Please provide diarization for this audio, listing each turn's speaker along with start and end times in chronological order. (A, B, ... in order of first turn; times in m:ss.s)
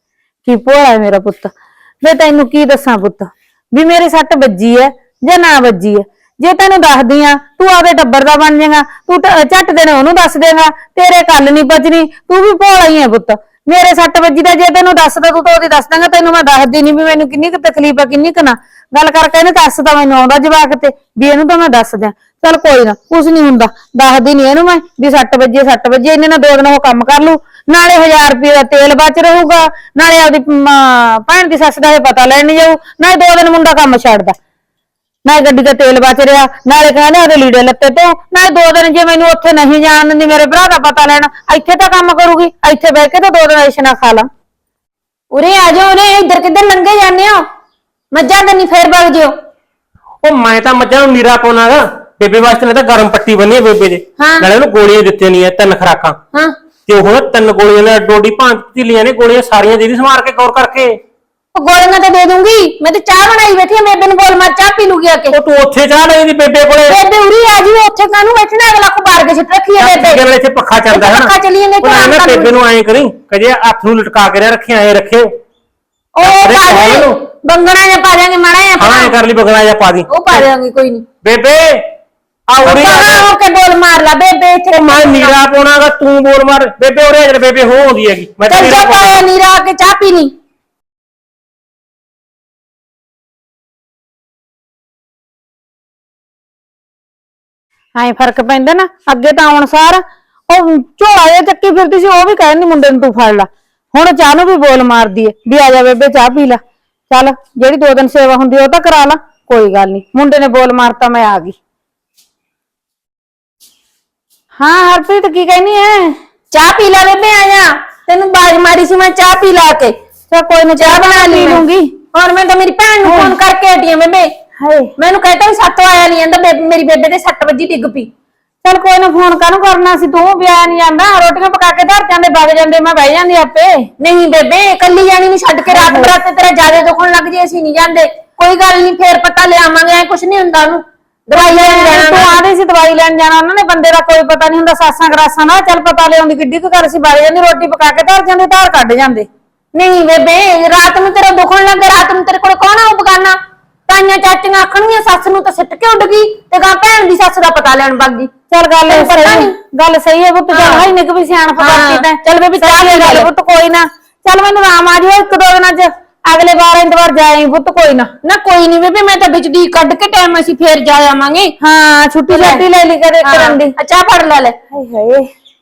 0:00.5-0:34.4 A
0:35.3-0:44.3 A
0:45.3-0:47.5 B
0:48.1-0:49.3 B
0:50.2-0:56.2 C
0:54.2-0:54.5 B
0:56.9-1:01.0 C
1:01.6-1:05.4 B
1:05.3-1:07.0 C
1:06.9-1:10.2 B
1:09.8-1:15.3 C
1:10.9-1:12.5 B
1:16.2-1:19.1 B
1:16.2-1:17.2 C
1:18.8-1:20.5 C
1:20.1-1:21.1 B
1:21.2-1:21.9 C
1:22.5-1:23.3 C
1:22.6-1:25.3 B
1:24.8-1:29.2 C
1:28.5-1:30.3 B
1:38.0-1:51.6 A
1:54.6-1:56.2 A
1:56.5-2:00.0 B
2:00.3-2:01.9 A
2:00.8-2:01.6 B
2:02.1-2:04.3 B
2:03.0-2:03.4 A
2:04.6-2:04.9 A
2:05.0-2:08.1 B
2:08.6-2:13.9 A
2:14.0-2:22.4 B
2:15.7-2:16.1 A
2:21.4-2:29.3 A
2:29.7-2:38.3 B
2:38.5-2:48.1 A
2:38.9-2:39.5 B
2:40.5-2:40.9 B
2:41.6-2:43.3 B
2:48.2-2:51.6 B
2:51.6-2:53.8 A
2:52.3-2:52.6 B
2:53.2-2:54.6 B
2:54.7-2:55.3 A